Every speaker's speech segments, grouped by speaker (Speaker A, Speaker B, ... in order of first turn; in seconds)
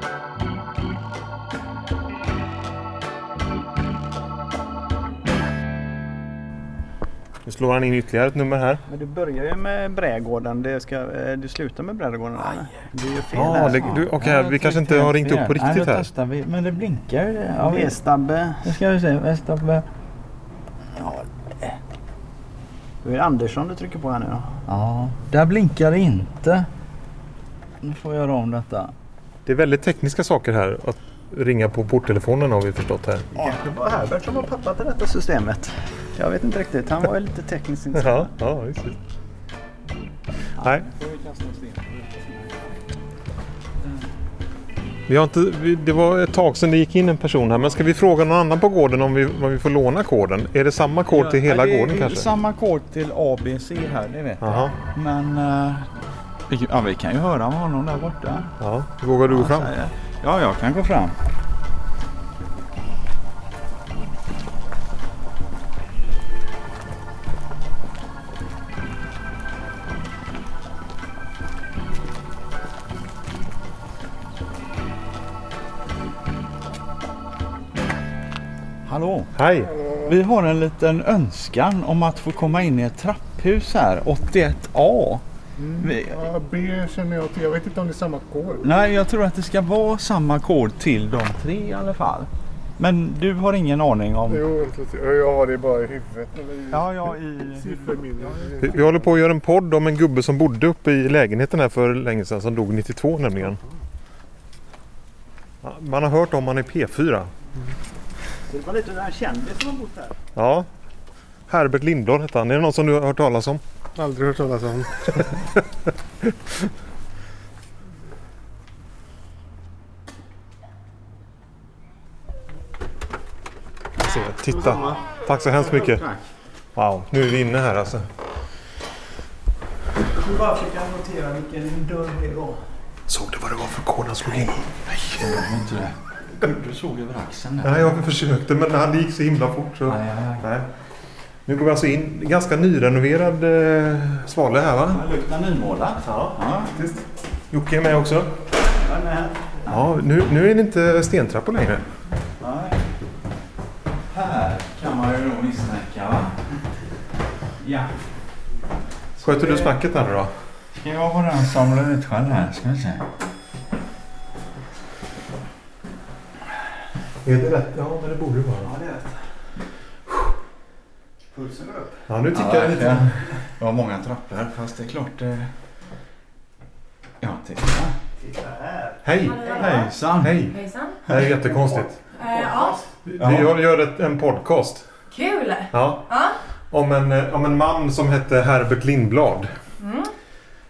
Speaker A: 7.5-8.8, 13.3-16.1, 29.4-33.3, 37.9-39.0, 45.1-52.3, 54.4-54.7, 58.6-59.7, 79.3-79.8, 98.5-103.6, 105.6-107.3, 110.3-110.7, 111.5-113.6, 115.0-115.6, 124.0-126.0, 126.8-128.1, 133.1-135.4, 137.6-140.7, 141.4-145.0, 146.0-148.3, 149.7-151.8, 159.2-160.3, 167.2-168.7, 172.1-173.2, 179.0-179.6, 180.2-182.0, 183.0-184.8, 185.7-186.1, 186.7-189.5
Speaker B: 8.9-13.9, 17.6-18.7, 23.0-24.5, 33.3-38.3, 108.5-110.2, 130.0-132.6, 148.8-149.5, 168.7-169.0, 171.3-172.0, 178.2-179.0, 181.1-182.9
Speaker C: 13.6-18.0, 18.6-19.9, 20.9-21.8, 24.7-26.7, 27.8-28.9, 40.6-42.8, 51.1-55.9, 56.5-58.5, 59.2-61.1, 78.8-79.3, 80.0-86.5, 88.5-94.7, 96.5-98.8, 135.1-137.9, 139.9-140.4, 144.9-146.7, 149.2-149.7, 152.4-152.8, 154.1-156.4, 157.6-157.9, 159.2-159.7, 160.7-163.1, 172.3-175.5, 177.2-177.9, 179.5-180.4, 183.2-183.5
Speaker D: 86.5-88.4, 94.7-96.3, 114.2-114.7
Speaker E: 179.2-181.0, 182.1-182.8, 185.1-186.3, 189.8-190.1